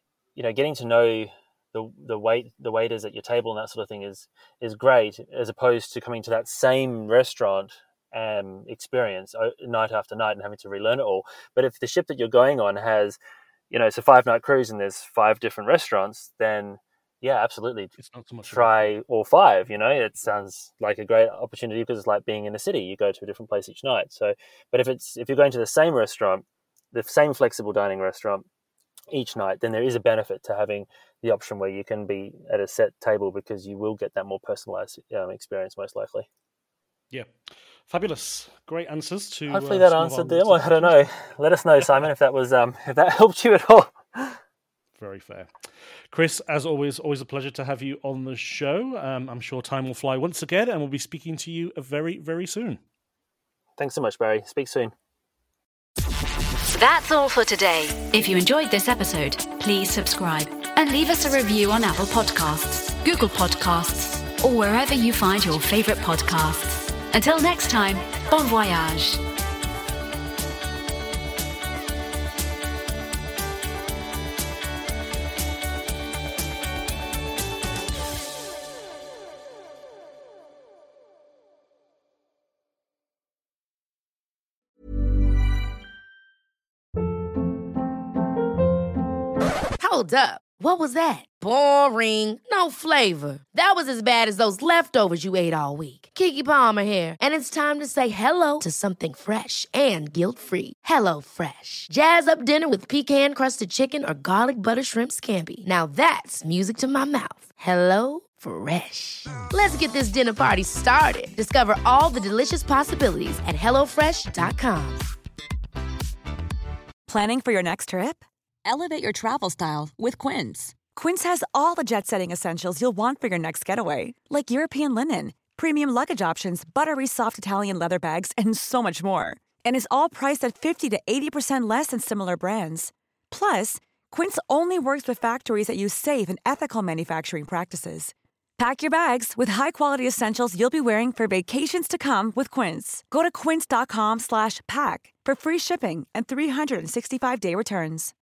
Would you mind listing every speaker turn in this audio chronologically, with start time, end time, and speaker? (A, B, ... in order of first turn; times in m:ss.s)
0:00.4-0:13.2 A
0:13.7-0:17.9 A
0:18.0-0:18.9 B
0:18.4-0:28.4 A
0:29.1-0:36.3 A
0:37.9-0:41.0 B
0:39.5-0:44.4 A
0:45.0-0:45.5 B
0:46.1-0:52.8 B
0:53.8-0:54.9 A
0:56.7-1:09.2 C
1:29.8-1:55.0 D
1:57.1-2:28.1 E